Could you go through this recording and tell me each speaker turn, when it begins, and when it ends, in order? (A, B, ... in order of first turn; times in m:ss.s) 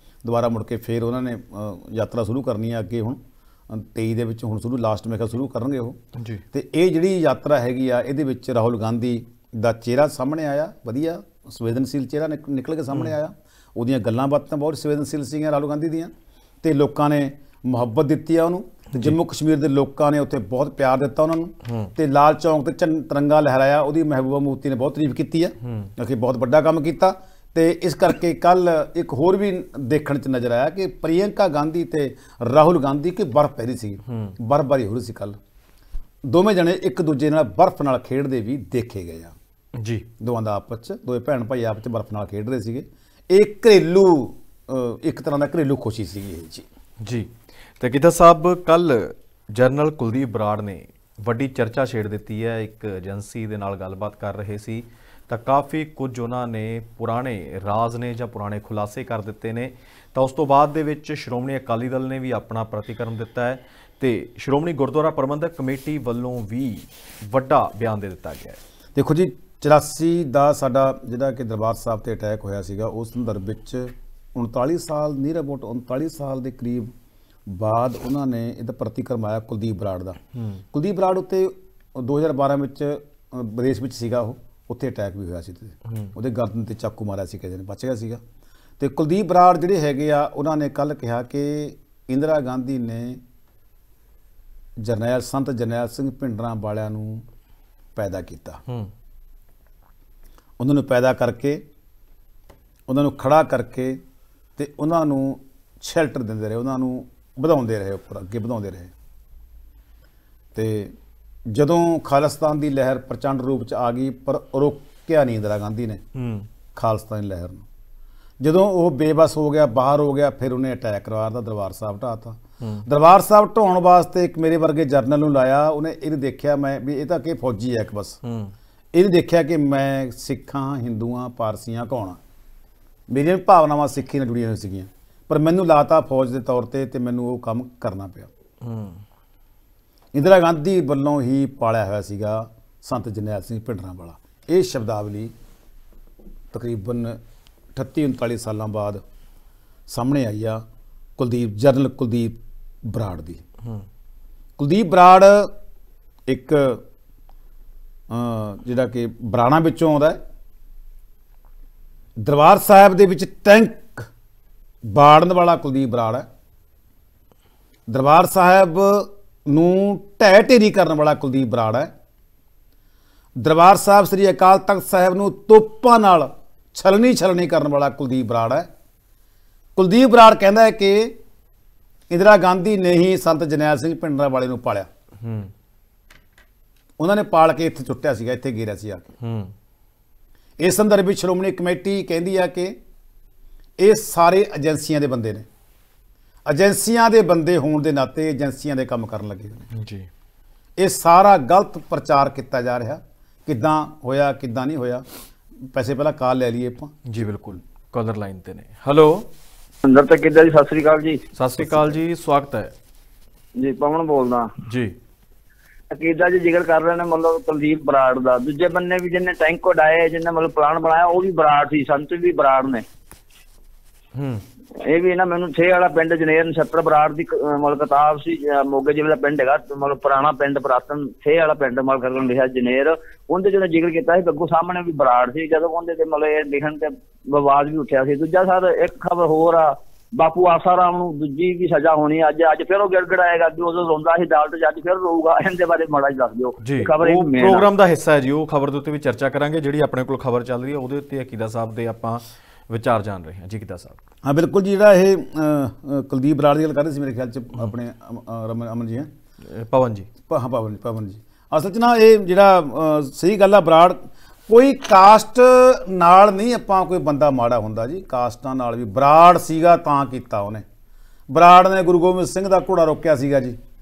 0:00.2-0:06.0 A
0:06.2-0:06.4 B
0:06.5-0:16.1 A
0:12.9-0:13.1 B
0:16.6-0:35.4 A
0:18.9-0:19.2 B
0:21.6-0:21.9 B
0:25.6-0:25.9 B
0:34.1-0:34.4 B
0:36.2-0:39.3 A
0:39.7-0:40.1 B
0:40.2-0:46.6 A
0:47.0-1:08.6 B
1:08.9-1:16.9 A
1:17.5-1:20.2 A
1:20.3-1:20.6 B
1:20.7-1:28.2 A
1:25.9-1:26.1 B
1:28.8-1:33.2 A
1:34.8-1:37.2 A
1:38.0-1:38.6 A
1:40.6-1:41.6 A
1:42.9-1:44.0 A
1:44.6-1:48.9 A
1:50.5-1:50.9 A
1:51.5-1:56.0 A
1:56.1-1:56.5 B
1:56.7-1:57.6 A
1:58.4-2:08.2 A
2:02.6-2:02.8 B
2:08.2-2:08.5 B
2:08.9-2:12.2 A
2:13.1-2:18.3 A
2:18.6-2:19.0 B
2:20.1-2:25.3 A
2:26.5-2:27.2 A
2:27.7-2:29.0 A
2:29.9-2:30.6 A
2:31.2-2:33.4 A
2:34.6-2:35.5 A
2:36.3-2:36.8 A
2:38.1-2:40.2 A
2:42.2-2:44.1 A
2:44.8-2:46.2 A
2:47.9-2:51.9 A
2:53.4-2:58.7 A
2:59.8-3:01.1 A
3:02.1-3:04.9 A
3:05.2-3:05.5 B
3:07.0-3:09.1 A
3:09.2-3:09.5 B
3:10.6-3:12.7 A
3:13.8-3:15.4 A
3:16.4-3:19.7 A
3:19.7-3:20.1 B
3:20.8-3:25.0 A
3:25.6-3:27.0 A
3:27.0-3:29.3 B
3:29.8-3:31.2 C
3:31.3-3:32.7 B
3:33.6-3:34.5 C
3:34.6-3:35.0 B
3:35.9-3:42.8 C
3:44.1-3:44.4 B
3:44.8-4:07.7 C
4:06.6-4:14.0 B
4:14.2-4:19.1 A
4:19.5-4:20.1 B
4:20.3-4:30.6 A
4:31.3-4:33.6 A